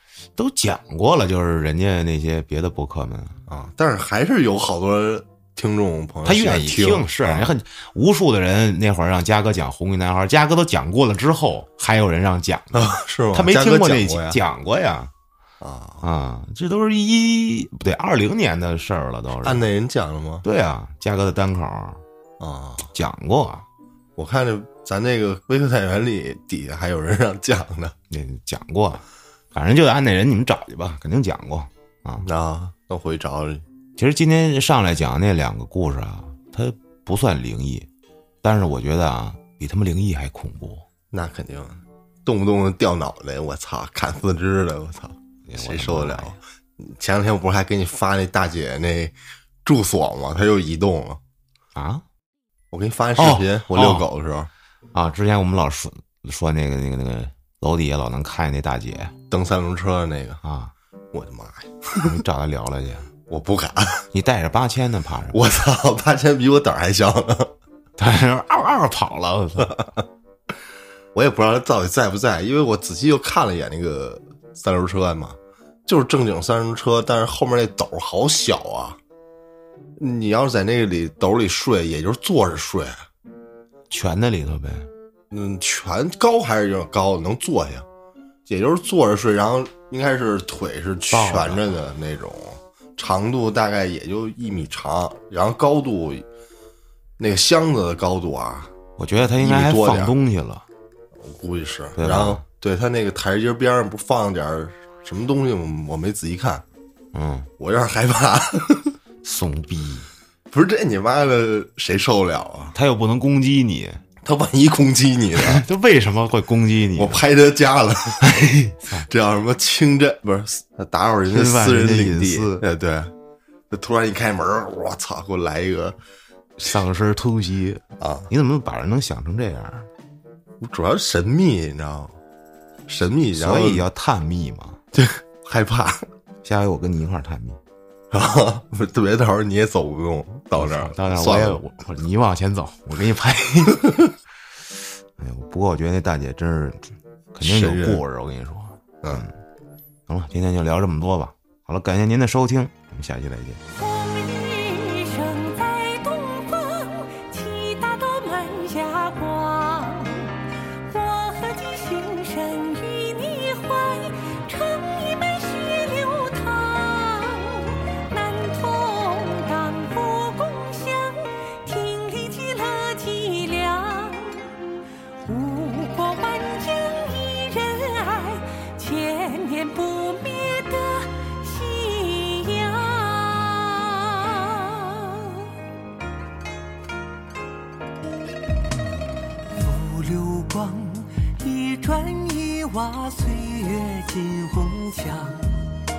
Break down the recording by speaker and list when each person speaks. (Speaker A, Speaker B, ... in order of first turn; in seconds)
Speaker A: 0.4-3.4, 6.2-15.1, 16.0-19.7, 20.4-22.0, 22.9-23.6, 28.1-32.3, 34.0-37.9, 38.4-40.9, 45.5-46.4, 51.8-52.0, 53.2-54.1, 54.9-59.1, 60.4-60.7, 62.0-63.1, 64.1-65.4, 68.0-69.9, 83.9-84.9, 91.1-91.7, 99.0-100.7, 102.0-102.4, 107.1-107.5, 109.2-110.1, 112.7-114.0, 115.4-117.2, 118.2-119.1, 121.3-122.7, 126.6-129.9, 133.3-134.8, 136.4-137.6, 140.6-144.0, 145.2-149.3, 150.1-153.6
Speaker B: 3.5-7.5, 12.7-14.4, 15.6-16.1, 19.4-20.4, 22.4-22.9, 24.2-27.9, 32.2-33.7, 41.1-51.2, 52.7-54.5, 59.3-60.4, 61.1-62.2, 63.3-64.1, 65.3-67.5, 71.1-79.0, 80.0-83.0, 85.3-87.9, 88.5-96.2, 97.2-98.7, 99.4-100.2, 101.2-106.6, 107.6-109.0, 110.5-112.8, 114.2-115.6, 117.0-118.5, 119.0-123.1, 123.7-126.0, 128.0-128.3, 130.6-132.2, 132.9-133.9, 134.9-136.1, 138.1-141.6, 147.4-148.0
Speaker C: 153.8-174.7, 175.2-185.5, 189.6-195.7